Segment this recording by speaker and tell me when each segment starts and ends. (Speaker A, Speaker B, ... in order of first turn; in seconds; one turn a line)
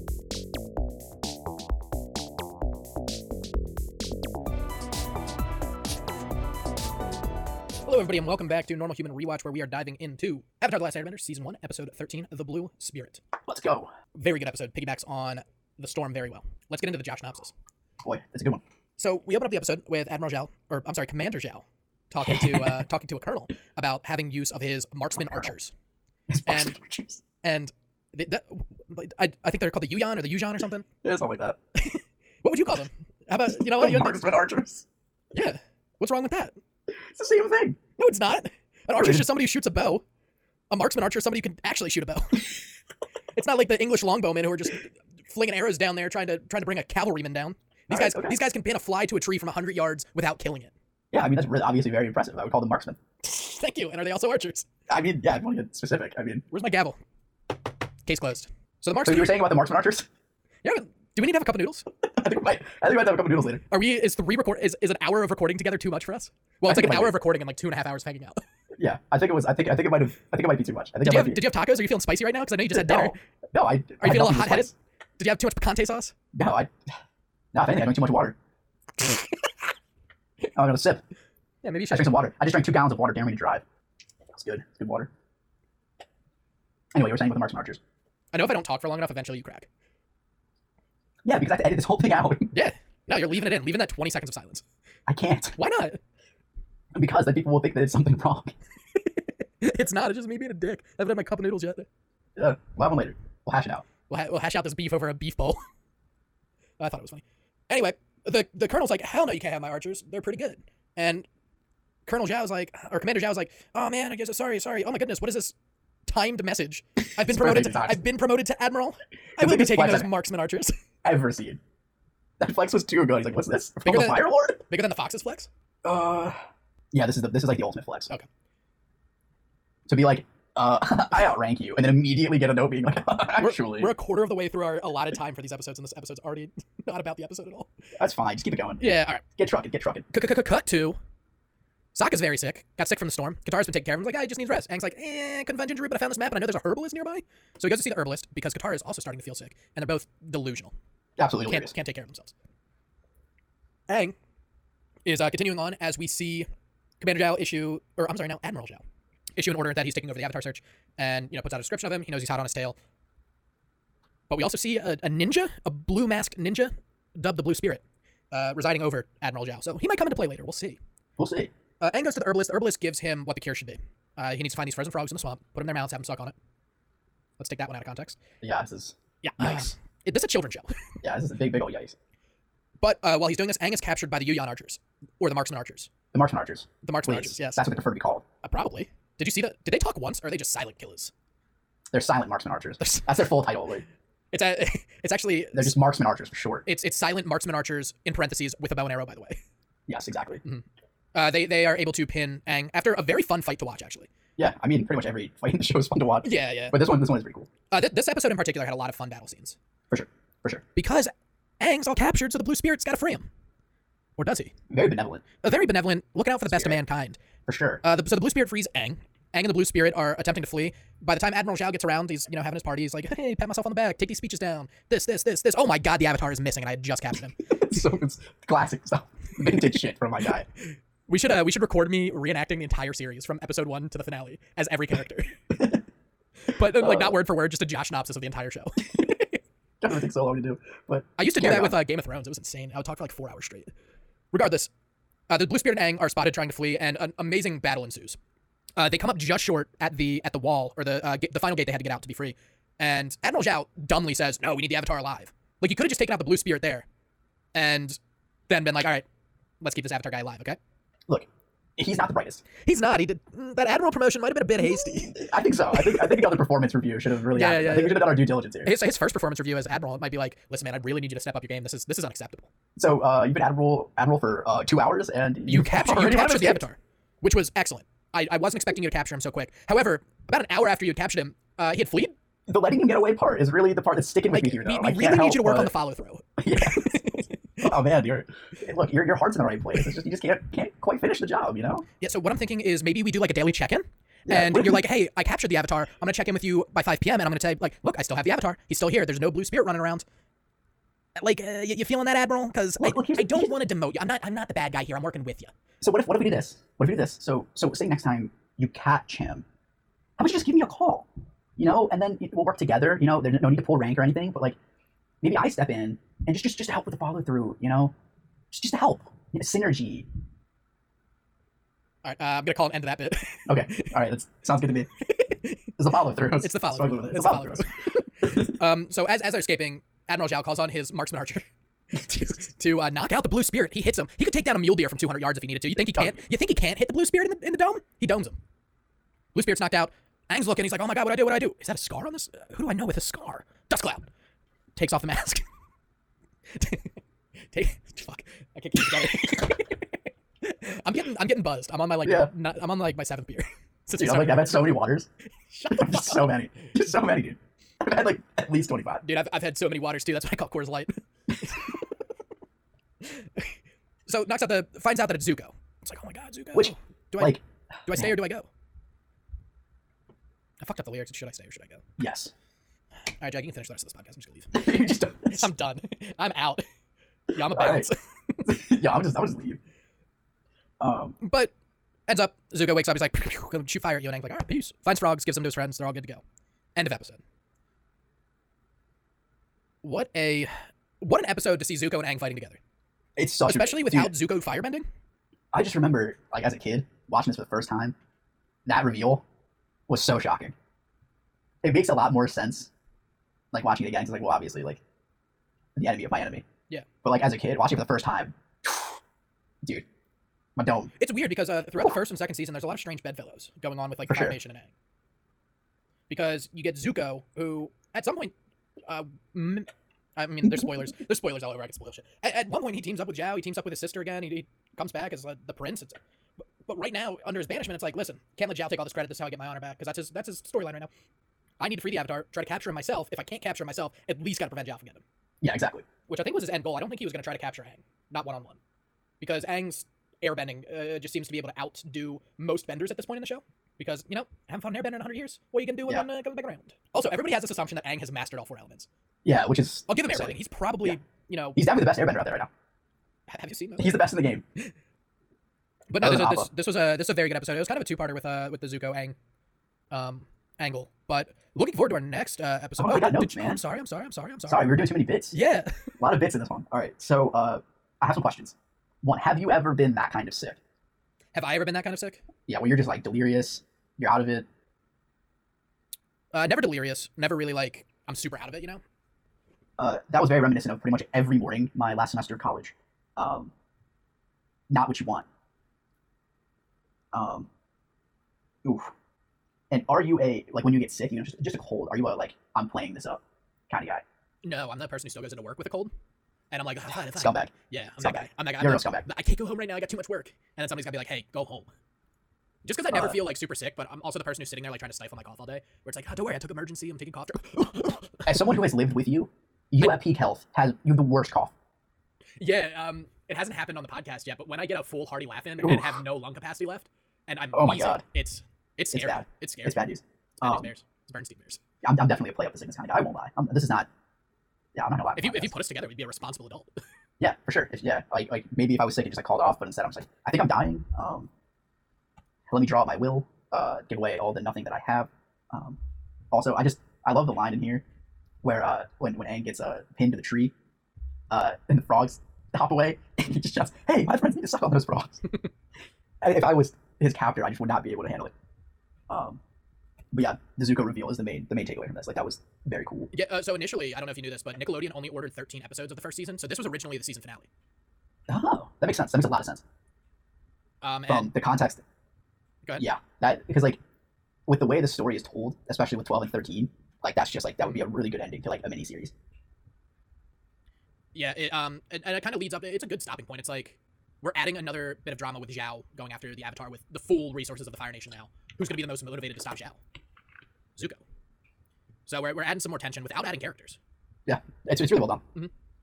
Speaker A: 7.8-13.2
Speaker B: 13.4-13.9
Speaker A: 14.1-17.5
Speaker B: 18.0-18.6
Speaker A: 19.0-25.7
Speaker B: 22.2-22.8
Speaker B: 26.3-27.2
Speaker A: 26.4-26.8
Speaker A: 27.4-30.9
Speaker B: 31.0-31.6
Speaker A: 31.8-34.3
Speaker B: 33.5-34.9
Speaker A: 35.3-36.5
Speaker B: 37.1-37.8
Speaker A: 38.0-40.0
Speaker B: 38.9-39.4
Speaker A: 40.7-42.6
Speaker A: 43.3-50.7
Speaker B: 47.9-48.4
Speaker B: 51.1-53.0
Speaker A: 53.2-54.7
Speaker B: 54.9-56.4
Speaker A: 56.5-57.0
Speaker A: 58.0-59.5
Speaker B: 59.0-60.1
Speaker A: 60.6-61.9
Speaker B: 62.1-63.6
Speaker A: 63.7-68.4
Speaker B: 66.6-67.2
Speaker B: 68.8-71.5
Speaker A: 71.0-73.1
Speaker B: 72.7-74.7
Speaker A: 74.0-76.1
Speaker B: 76.3-76.7
Speaker B: 77.5-78.3
Speaker B: 80.5-81.0
Speaker A: 81.6-82.3
Speaker B: 81.9-83.6
Speaker B: 84.3-85.1
Speaker B: 86.9-87.8
Speaker A: 88.3-89.7
Speaker B: 91.2-92.5
Speaker A: 92.5-94.6
Speaker B: 95.1-95.6
Speaker A: 95.5-96.0
Speaker B: 96.9-98.5
Speaker A: 99.2-101.9
Speaker B: 102.4-103.8
Speaker A: 104.1-105.6
Speaker A: 106.8-111.2
Speaker A: 112.0-115.5
Speaker A: 116.1-120.7
Speaker B: 117.2-118.0
Speaker B: 119.4-120.1
Speaker B: 121.0-121.6
Speaker B: 122.4-124.6
Speaker A: 123.8-125.5
Speaker B: 125.8-126.4
Speaker B: 126.9-128.1
Speaker B: 129.9-133.9
Speaker A: 133.3-137.7
Speaker B: 137.9-140.1
Speaker A: 138.8-139.2
Speaker A: 140.1-141.0
Speaker A: 141.9-150.7
Speaker B: 151.2-151.7
Speaker A: 151.4-152.3
Speaker A: 153.9-154.1
Speaker A: 155.1-156.5
Speaker A: 157.0-158.8
Speaker A: 159.3-162.8
Speaker A: 164.3-170.8
Speaker B: 171.2-171.5
Speaker A: 171.8-176.3
Speaker A: 177.4-178.2
Speaker B: 178.4-179.7
Speaker A: 179.2-180.7
Speaker B: 181.0-181.9
Speaker A: 182.8-185.9
Speaker B: 186.1-188.2
Speaker A: 186.8-187.7
Speaker A: 188.4-191.1
Speaker B: 191.9-193.8
Speaker A: 192.8-193.3
Speaker A: 194.3-195.8
Speaker B: 195.5-196.7
Speaker A: 196.7-199.4
Speaker B: 199.9-200.4
Speaker A: 200.4-204.1
Speaker B: 204.4-207.5
Speaker A: 206.2-206.8
Speaker A: 207.7-209.6
Speaker B: 209.9-210.6
Speaker A: 210.7-213.3
Speaker A: 214.2-214.5
Speaker B: 214.7-215.2
Speaker A: 215.4-217.2
Speaker B: 216.5-216.8
Speaker B: 217.5-217.8
Speaker A: 217.8-227.5
Speaker B: 227.5-230.4
Speaker A: 231.1-235.8
Speaker A: 236.5-239.3
Speaker B: 236.8-237.2
Speaker B: 239.8-241.8
Speaker A: 241.2-243.7
Speaker A: 244.3-244.7
Speaker A: 245.3-248.2
Speaker A: 248.8-256.9
Speaker A: 257.5-258.0
Speaker A: 258.5-259.0
Speaker A: 259.6-260.6
Speaker B: 261.1-262.4
Speaker A: 262.6-266.4
Speaker B: 264.9-268.7
Speaker A: 267.3-272.5
Speaker B: 272.8-276.6
Speaker A: 275.5-282.1
Speaker B: 282.5-285.7
Speaker A: 284.3-287.3
Speaker B: 286.4-291.8
Speaker A: 292.0-300.0
Speaker B: 294.3-294.8
Speaker A: 301.2-305.5
Speaker B: 302.8-303.6
Speaker B: 305.8-309.4
Speaker B: 310.2-314.6
Speaker B: 315.2-317.9
Speaker B: 318.5-320.1
Speaker A: 322.0-323.9
Speaker B: 323.5-324.9
Speaker A: 325.0-325.6
Speaker B: 325.8-327.7
Speaker A: 326.3-338.4
Speaker A: 339.3-344.1
Speaker A: 344.8-345.4
Speaker A: 346.6-346.9
Speaker A: 347.5-349.9
Speaker A: 350.4-354.6
Speaker B: 352.0-352.3
Speaker B: 354.0-355.1
Speaker A: 355.5-356.3
Speaker B: 355.7-359.0
Speaker A: 359.0-361.8
Speaker A: 363.0-363.5
Speaker A: 364.1-368.5
Speaker B: 366.5-367.4
Speaker A: 370.6-371.8
Speaker B: 372.0-372.3
Speaker A: 373.2-374.7
Speaker B: 374.5-375.5
Speaker A: 375.3-376.6
Speaker A: 377.3-378.5
Speaker B: 377.4-377.9
Speaker B: 378.4-379.6
Speaker B: 380.8-381.2
Speaker A: 381.2-381.5
Speaker A: 382.1-386.2
Speaker A: 386.8-387.2
Speaker A: 389.8-390.5
Speaker A: 391.0-392.6
Speaker B: 393.1-394.1
Speaker A: 393.4-394.8
Speaker B: 395.5-397.9
Speaker B: 398.6-399.2
Speaker B: 399.9-400.5
Speaker B: 401.6-402.7
Speaker B: 403.5-404.8
Speaker B: 405.8-406.4
Speaker B: 407.0-408.9
Speaker B: 410.6-410.9
Speaker A: 411.0-414.7
Speaker B: 414.1-414.4
Speaker A: 416.1-418.3
Speaker A: 418.9-426.0
Speaker A: 426.6-430.9
Speaker A: 431.6-435.0
Speaker B: 435.4-435.9
Speaker A: 436.1-438.6
Speaker A: 439.2-448.9
Speaker B: 449.2-451.0
Speaker A: 449.9-451.7
Speaker B: 451.6-452.5
Speaker A: 453.3-454.0
Speaker B: 453.8-454.4
Speaker A: 455.9-459.1
Speaker B: 456.0-456.5
Speaker A: 459.9-465.9
Speaker B: 462.8-463.6
Speaker B: 464.5-465.4
Speaker B: 466.0-470.6
Speaker A: 471.3-472.2
Speaker B: 472.5-474.4
Speaker A: 476.3-478.8
Speaker B: 479.8-483.5
Speaker B: 484.7-485.2
Speaker B: 487.1-487.5
Speaker B: 488.6-488.9
Speaker B: 489.7-494.0
Speaker A: 494.4-495.9
Speaker A: 496.5-501.7
Speaker B: 496.9-499.1
Speaker A: 502.6-508.4
Speaker B: 502.9-503.2
Speaker B: 508.2-511.5
Speaker A: 512.4-521.6
Speaker B: 515.6-516.0
Speaker B: 517.5-518.0
Speaker B: 518.9-520.7
Speaker B: 521.8-523.9
Speaker B: 524.8-525.5
Speaker A: 525.1-526.7
Speaker B: 527.2-531.3
Speaker B: 532.5-535.8
Speaker B: 536.3-537.8
Speaker B: 538.4-540.5
Speaker B: 541.3-545.3
Speaker B: 546.2-548.3
Speaker B: 549.1-549.4
Speaker B: 550.1-553.1
Speaker A: 553.1-557.5
Speaker B: 558.3-559.6
Speaker A: 560.8-561.3
Speaker B: 561.1-561.8
Speaker B: 562.8-563.8
Speaker B: 564.5-569.1
Speaker A: 571.1-579.8
Speaker A: 580.8-581.0
Speaker A: 582.1-583.8
Speaker B: 584.2-585.2